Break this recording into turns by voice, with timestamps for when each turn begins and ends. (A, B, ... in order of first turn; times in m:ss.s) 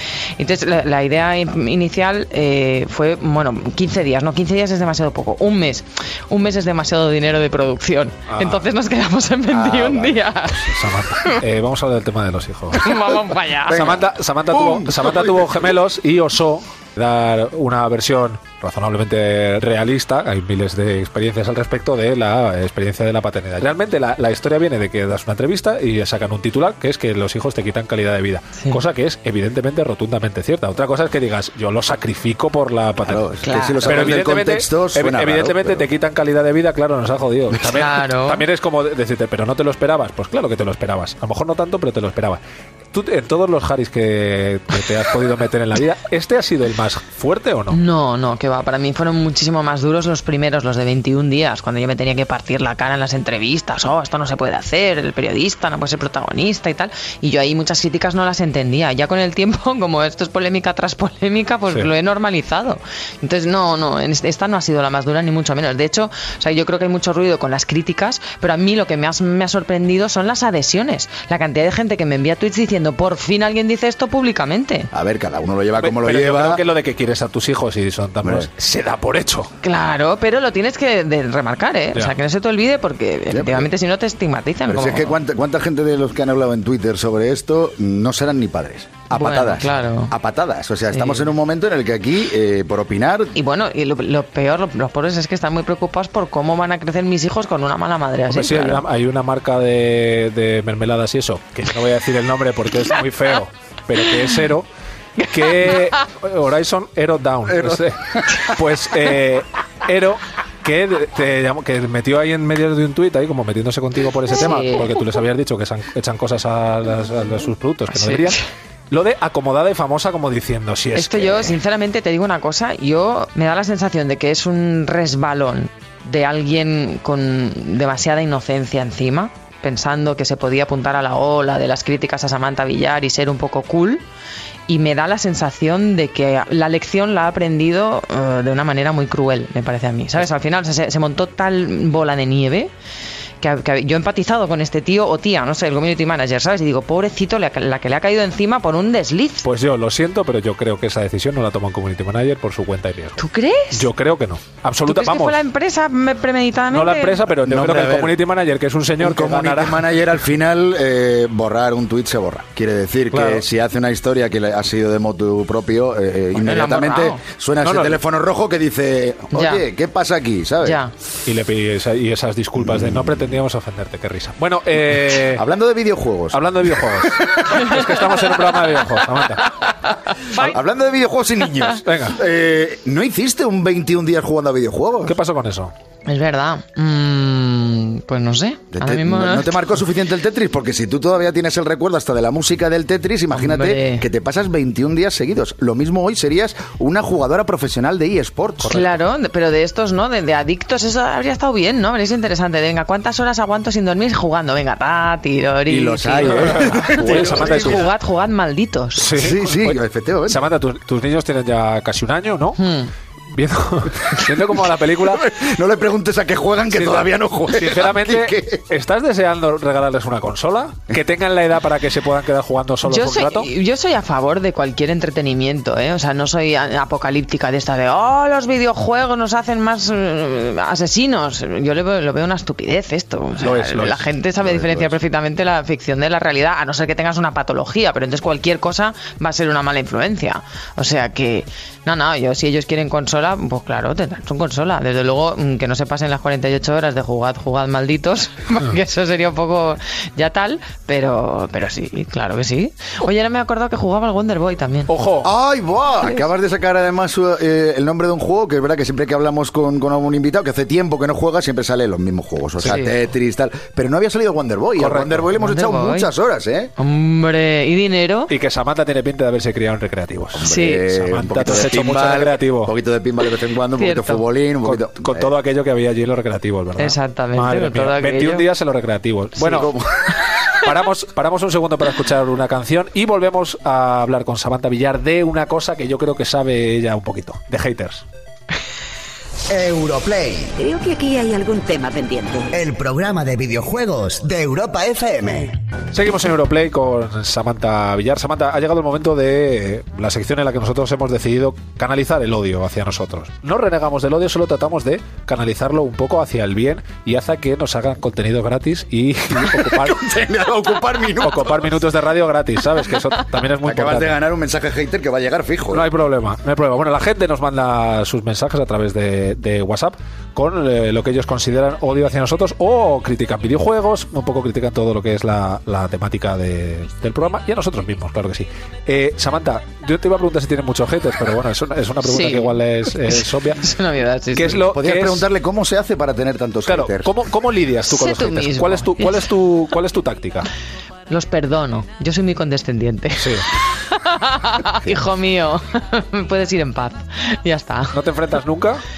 0:00.4-0:11.4 A
0:08.3-0:08.7 B
0:09.5-0:10.2 C
0:10.6-0:12.9 B
0:12.7-0:14.0 A
0:13.7-0:15.5 C
0:13.7-0:33.3 B
0:33.0-0:35.9 C
0:33.4-0:34.2 A
0:33.8-0:42.4 B
0:37.6-0:38.4 A
0:42.9-0:47.8 B
0:47.7-1:14.9 A
1:14.9-1:16.6 C
1:15.8-1:19.5 B
1:18.2-1:18.5 C
1:19.6-1:25.2 A
1:23.3-1:23.7 C
1:24.7-1:33.3 C
1:29.1-1:30.1 A
1:30.9-1:31.3 A
1:33.3-1:38.8 A
1:38.3-1:44.6 B
1:45.2-1:58.4 B
1:45.2-1:46.0 A
1:47.6-1:47.8 C
1:54.3-1:54.9 A
1:57.9-1:58.4 A
1:58.9-2:01.5 B
2:00.9-2:14.0 A
2:14.7-2:22.7 A
2:23.4-2:29.4 A
2:29.4-2:33.2 B
2:33.2-2:33.9 A
2:33.7-2:35.4 B
2:34.8-2:37.2 A
2:36.7-2:39.9 B
2:37.4-2:38.2 C
2:39.0-2:50.8 C
2:43.1-2:43.4 B
2:46.3-2:47.2 A
2:47.6-2:48.0 B
2:49.3-2:49.6 A
2:50.6-2:50.9 A
2:51.2-2:55.4 B
2:52.6-2:53.2 C
2:55.3-2:57.5 C
2:56.3-2:59.6 B
3:00.1-3:00.6 A
3:00.3-3:05.2 C
3:01.8-3:02.2 B
3:05.0-3:05.7 B
3:06.0-3:09.6 A
3:08.7-3:18.8 C
3:13.3-3:14.0 A
3:18.6-3:18.9 B
3:18.6-3:29.1 A
3:25.7-3:27.8 C
3:26.2-3:27.9 B
3:29.0-3:32.6 B
3:29.1-3:30.4 C
3:32.6-3:32.9 A
3:33.3-3:35.3 B
3:35.0-3:38.6 C
3:36.7-3:43.5 B
3:42.8-4:14.9 A
3:53.4-3:54.1 B
3:54.4-3:55.0 C
4:14.9-4:15.3 B
4:15.2-4:26.7 C
4:22.6-4:22.9 A
4:24.8-4:25.3 B
4:25.4-4:26.1 A
4:26.8-4:28.3 A
4:28.3-4:32.7 B
4:30.3-4:35.3 C
4:30.4-4:30.8 A
4:33.8-4:34.2 A
4:34.6-4:39.7 B
4:36.8-4:38.5 A
4:39.4-4:40.1 C
4:40.5-4:48.0 B
4:49.5-4:50.6 D
4:50.6-4:52.5 E
4:52.5-4:55.6 D
4:55.9-5:10.0 B
5:09.4-5:11.8 C
5:11.2-5:14.1 B
5:13.6-5:15.9 C
5:15.7-5:33.6 B
5:32.0-5:34.6 A
5:34.3-5:35.2 B
5:34.5-5:37.1 C
5:36.6-5:40.5 B
5:37.8-5:39.3 A
5:41.1-5:48.0 A
5:47.9-5:48.8 B